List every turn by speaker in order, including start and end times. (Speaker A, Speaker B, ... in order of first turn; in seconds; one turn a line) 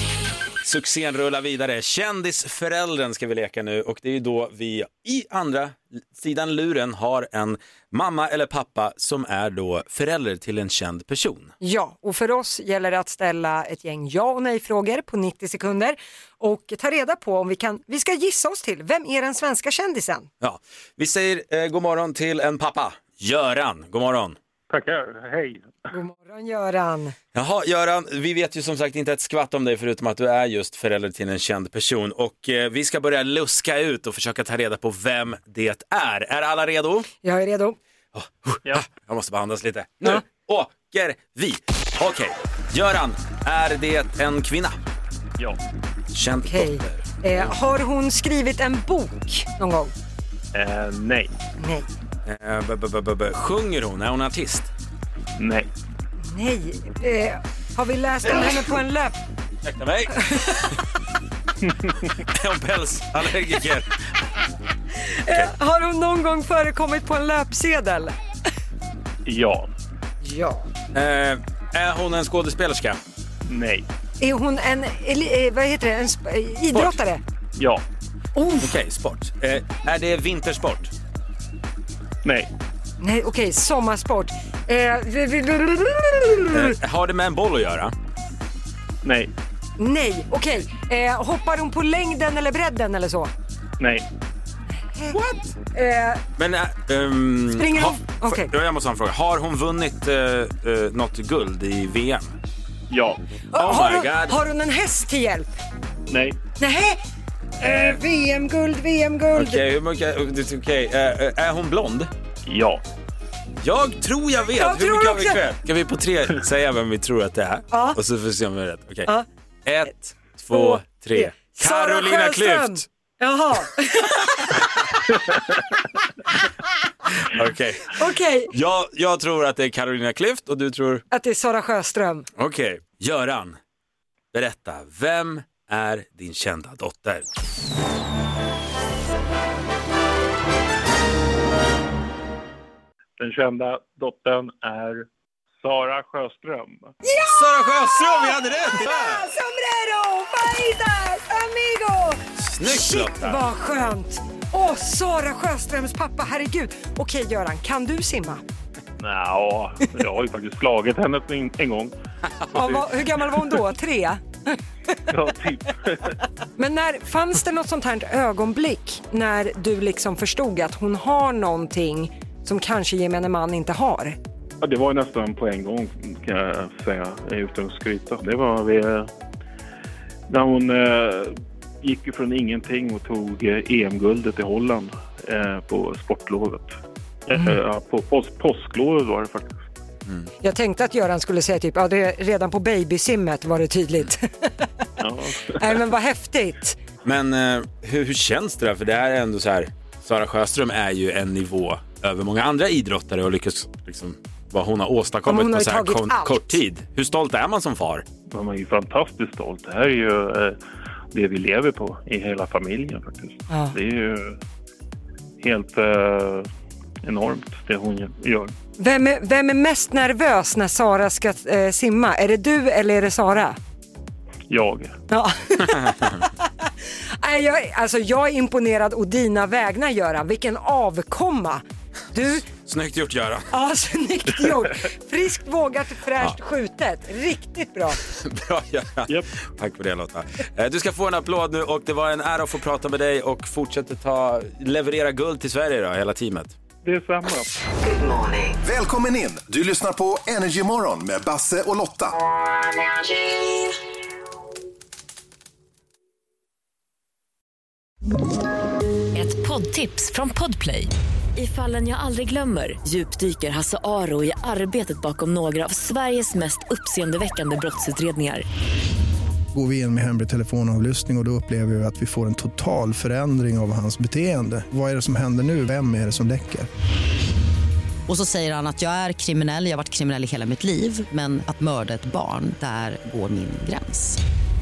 Speaker A: 0.6-11.5
Speaker B: 11.6-20.3
Speaker A: 20.4-24.4
Speaker C: 24.7-25.9
Speaker B: 25.9-27.1
Speaker A: 27.3-37.1
Speaker B: 37.2-37.8
Speaker A: 38.1-44.8
Speaker A: 46.1-47.0
Speaker B: 46.4-49.9
Speaker C: 50.5-51.3
Speaker B: 51.6-51.9
Speaker A: 52.2-54.7
Speaker C: 55.4-55.7
Speaker B: 56.3-59.2
Speaker A: 59.6-60.8
Speaker A: 62.1-64.0
Speaker B: 64.9-68.2
Speaker C: 69.2-69.7
Speaker B: 70.2-70.7
Speaker A: 70.9-73.0
Speaker C: 73.5-73.9
Speaker B: 74.2-77.2
Speaker C: 77.5-77.8
Speaker A: 78.5-80.9
Speaker C: 82.2-82.5
Speaker B: 83.0-86.8
Speaker A: 86.5-87.9
Speaker C: 89.0-89.3
Speaker B: 89.8-93.3
Speaker C: 93.8-94.1
Speaker B: 94.8-96.2
Speaker A: 96.4-102.3
Speaker B: 97.6-98.5
Speaker C: 102.9-103.2
Speaker B: 103.5-105.5
Speaker A: 103.5-104.4
Speaker C: 106.1-106.4
Speaker B: 106.6-107.0
Speaker B: 107.6-109.6
Speaker A: 107.6-108.0
Speaker A: 109.3-112.1
Speaker C: 112.4-112.8
Speaker A: 113.6-119.1
Speaker B: 114.5-115.4
Speaker B: 117.7-118.0
Speaker A: 119.7-122.8
Speaker B: 120.5-125.2
Speaker A: 127.2-131.0
Speaker B: 127.9-128.5
Speaker B: 131.1-132.3
Speaker A: 132.4-133.6
Speaker A: 134.3-137.2
Speaker C: 143.2-145.1
Speaker C: 145.6-146.9
Speaker B: 147.0-158.4
Speaker A: 147.2-149.3
Speaker A: 152.4-153.4
Speaker C: 159.0-161.9
Speaker B: 162.5-164.9
Speaker C: 162.5-162.8
Speaker C: 165.1-166.2
Speaker B: 166.6-174.2
Speaker C: 174.6-179.1
Speaker C: 180.3-186.8
Speaker C: 187.3-189.5
Speaker B: 190.4-194.9
Speaker C: 195.0-195.8
Speaker B: 195.4-196.8
Speaker A: 197.0-208.0
Speaker B: 205.2-206.6
Speaker C: 208.3-210.6
Speaker C: 211.1-214.4
Speaker B: 213.5-213.7
Speaker C: 215.4-216.5
Speaker C: 217.0-218.5
Speaker B: 218.8-223.6
Speaker C: 224.5-224.9
Speaker B: 225.1-232.4
Speaker A: 232.4-233.5
Speaker B: 233.5-238.0
Speaker A: 238.1-246.6
Speaker C: 246.8-247.6
Speaker D: 248.6-252.2
Speaker E: 259.1-268.4
Speaker F: 269.5-276.7
Speaker G: 278.1-284.2